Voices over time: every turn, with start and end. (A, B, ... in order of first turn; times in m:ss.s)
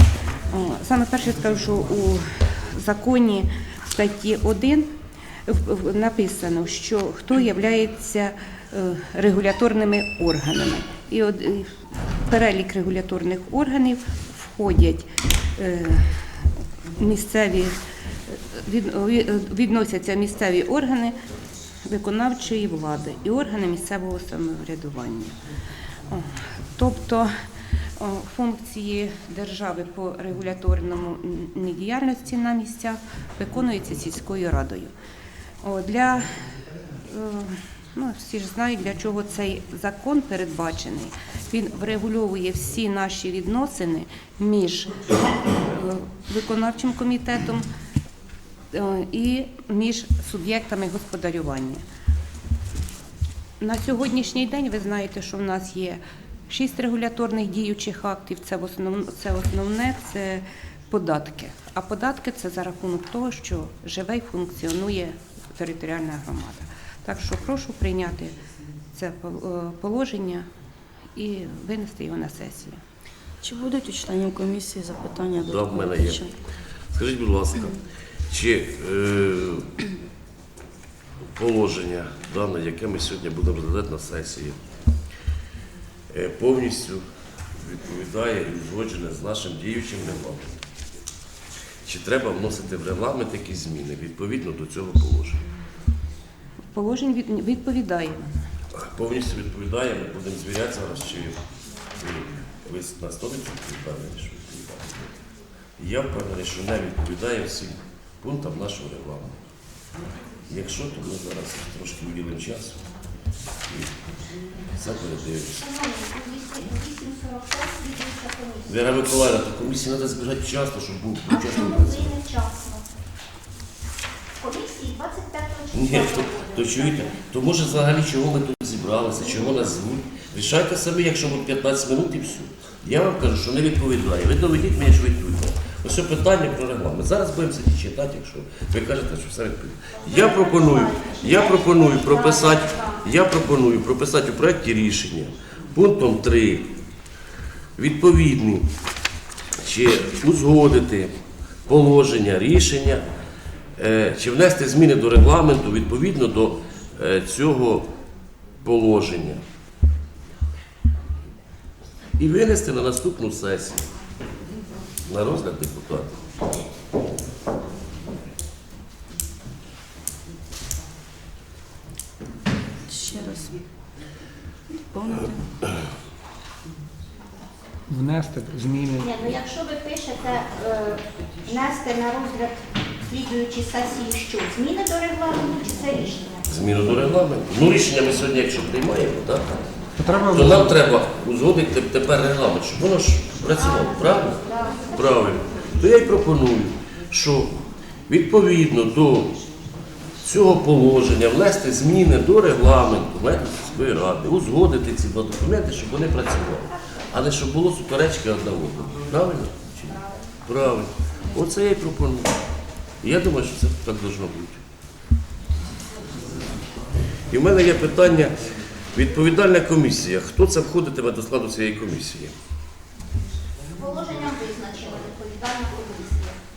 0:00.5-0:04.9 A
0:05.4-0:11.7 A
0:12.2-0:16.3 A
0:17.0-0:17.8 A
0:18.3-0:21.2 A
0:21.8-0:25.4 A
0:26.1-0:27.3 A
0:28.0-0:34.9 A
0:35.6-0:36.4 A
0:37.1-0:47.7 A
0:48.7-0:51.8 A
0:53.6-1:08.3 A
1:08.9-1:10.5 A
1:11.1-1:12.8 A
1:13.4-1:16.3 B
1:15.4-1:16.2 C
1:16.9-1:19.8 C
1:21.3-1:24.6 C
1:26.1-1:27.0 C
1:27.6-1:30.6 C
1:31.8-1:35.4 C
1:36.7-1:38.4 A
1:38.7-1:41.4 C
1:42.0-1:45.2 C
1:45.8-1:49.4 C
1:50.5-1:52.8 C
1:54.7-1:55.7 C
1:55.6-1:58.7 D
1:58.7-2:02.2 C
2:01.3-2:02.8 D
2:04.4-2:07.1 D
2:05.7-2:26.7 C
2:20.0-2:23.0 D
2:27.8-2:28.7 C
2:29.6-2:31.1 C
2:31.7-2:33.0 C
2:33.8-2:37.9 C
2:38.6-2:39.4 C
2:42.2-2:43.9 C
2:45.0-2:46.2 C
2:52.9-2:53.6 B
2:54.7-2:55.4 B
2:57.9-2:59.2 E
2:59.0-3:06.5 D
3:06.5-3:09.6 C
3:10.0-3:10.7 E
3:10.3-3:19.4 C
3:13.6-3:15.3 D
3:20.2-3:32.4 C
3:33.0-3:34.6 C
3:37.3-3:38.4 C
3:38.9-3:42.3 C
3:43.7-3:46.4 D